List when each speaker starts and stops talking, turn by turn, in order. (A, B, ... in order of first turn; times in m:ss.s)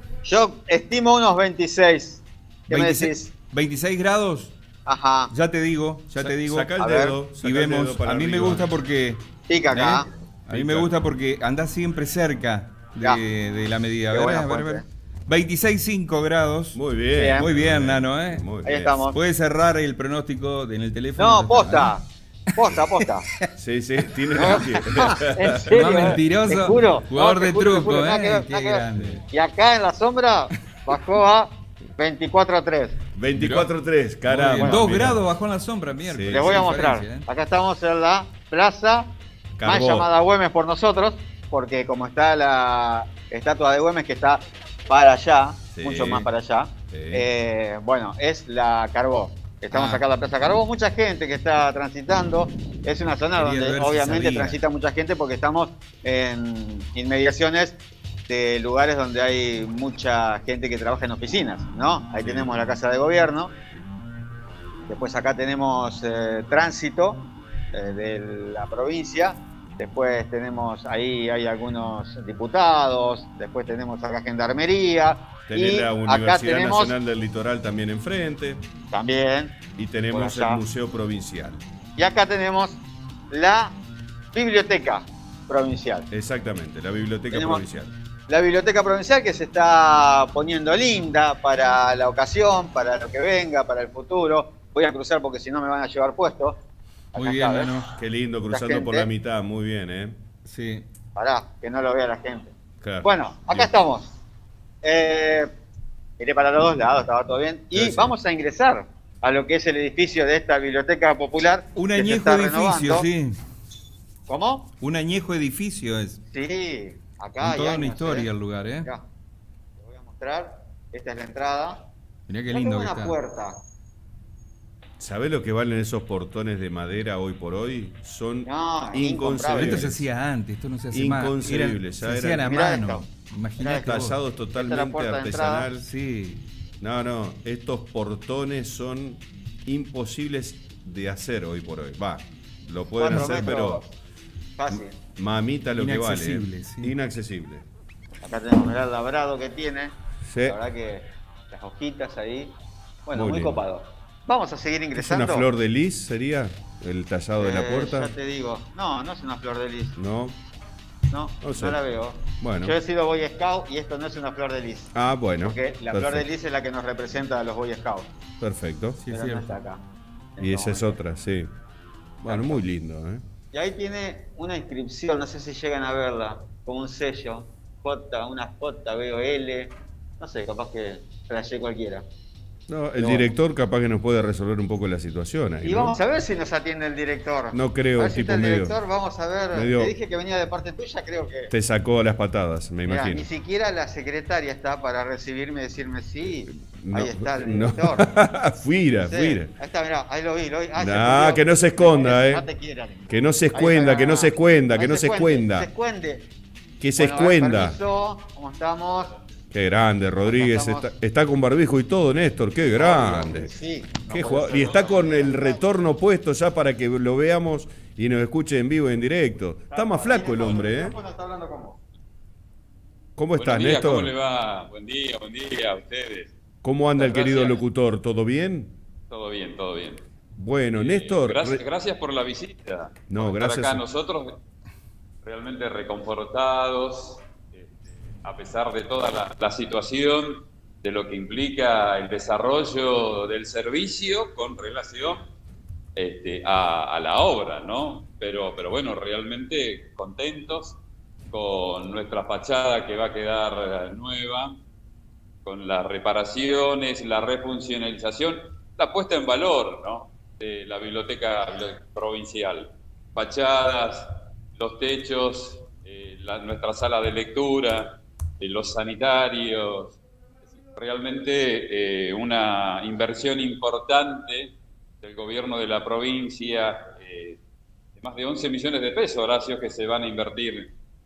0:00.2-0:03.3 A
0:02.7-0:04.6 B
0:04.9-0:05.3 A
0:05.3-0:06.7 B
0:06.2-0:08.7 C
0:06.8-0:07.2 A
0:07.4-0:16.8 B
0:09.5-0:10.0 A
0:10.5-0:10.9 C
0:14.1-0:14.9 A
0:16.7-0:19.0 C
0:17.2-0:17.5 A
0:17.4-0:18.5 B
0:18.6-0:19.2 A
0:19.1-0:21.9 B
0:21.2-0:23.3 A
0:23.6-0:26.2 C
0:24.4-0:33.0 A
0:24.4-0:25.0 B
0:25.7-0:29.2 B
0:33.1-0:35.2 C
0:33.4-0:33.7 B
0:34.3-0:37.3 B
0:34.6-0:34.8 A
0:36.0-0:36.7 C
0:36.3-0:39.1 A
0:39.6-0:40.1 C
0:39.6-1:03.5 A
0:45.7-0:46.3 C
0:46.9-0:47.2 C
0:49.7-0:50.0 B
0:53.4-0:54.6 B
1:04.9-1:17.0 A
1:15.5-1:18.6 C
1:18.9-1:19.6 A
1:19.8-1:21.6 C
1:20.1-1:20.6 A
1:22.0-1:23.8 A
1:24.3-1:26.1 A
1:26.1-1:27.9 C
1:27.3-1:27.6 A
1:28.3-1:36.6 A
1:37.1-1:37.7 A
1:37.2-1:37.9 B
1:38.0-1:40.2 C
1:38.5-1:39.1 A
1:40.4-1:40.9 B
1:41.2-1:44.1 A
1:42.8-1:43.7 C
1:44.8-1:45.5 A
1:46.2-1:53.1 A
1:47.8-1:48.1 C
1:51.8-1:53.4 B
1:54.3-1:54.7 A
1:54.8-1:56.2 B
1:56.3-1:58.3 A
1:57.4-1:58.9 B
1:59.8-2:01.9 A
2:02.3-2:03.2 B
2:02.5-2:03.6 A
2:05.0-2:10.0 C
2:08.5-2:09.9 A
2:09.5-2:14.2 B
2:10.9-2:12.5 C
2:12.4-2:13.1 A
2:13.6-2:13.9 A
2:13.7-2:15.9 C
2:14.6-2:15.7 A
2:15.8-2:16.4 B
2:16.8-2:23.8 C
2:23.0-2:23.9 A
2:24.6-2:25.0 A
2:24.7-2:27.7 C
2:25.8-2:27.0 B
2:28.2-2:29.9 A
2:30.2-2:30.6 C
2:30.5-2:32.6 A
2:33.1-2:35.5 A
2:33.1-2:33.6 C
2:35.0-2:38.1 C
2:37.4-2:40.0 A
2:40.0-2:40.4 C
2:41.1-2:44.9 A
2:41.4-2:41.8 C
2:42.4-2:42.8 C
2:44.9-2:46.3 C
2:45.4-2:48.1 A
2:48.4-2:49.1 C
2:49.0-2:49.6 B
2:49.1-2:49.8 A
2:50.4-2:51.0 A
2:50.4-2:51.5 C
2:52.2-2:53.2 C
2:52.3-2:52.6 A
2:53.5-3:02.0 A
3:02.7-3:06.0 C
3:03.0-3:03.3 A
3:05.6-3:11.5 A
3:07.5-3:08.8 C
3:09.5-3:09.9 C
3:11.5-3:13.3 C
3:12.9-3:18.1 A
3:16.6-3:19.5 C
3:19.0-3:26.3 A
3:20.8-3:22.4 C
3:23.1-3:25.7 C
3:26.8-3:27.8 C
3:27.0-3:29.1 A
3:29.5-3:33.5 C
3:30.2-3:30.9 A
3:32.7-3:35.6 A
3:34.1-3:41.0 C
3:39.7-3:41.8 A
3:43.2-3:44.1 C
3:43.4-3:46.3 D
3:46.6-3:48.8 C
3:47.0-3:47.6 D
3:49.1-3:50.0 D
3:50.4-3:51.6 C
3:50.8-3:54.4 D
3:53.1-3:53.8 C
3:55.2-4:05.3 D
4:06.0-4:10.8 D
4:11.3-4:14.6 D
4:15.4-4:30.0 D
4:30.6-4:37.4 D
4:38.0-4:40.7 D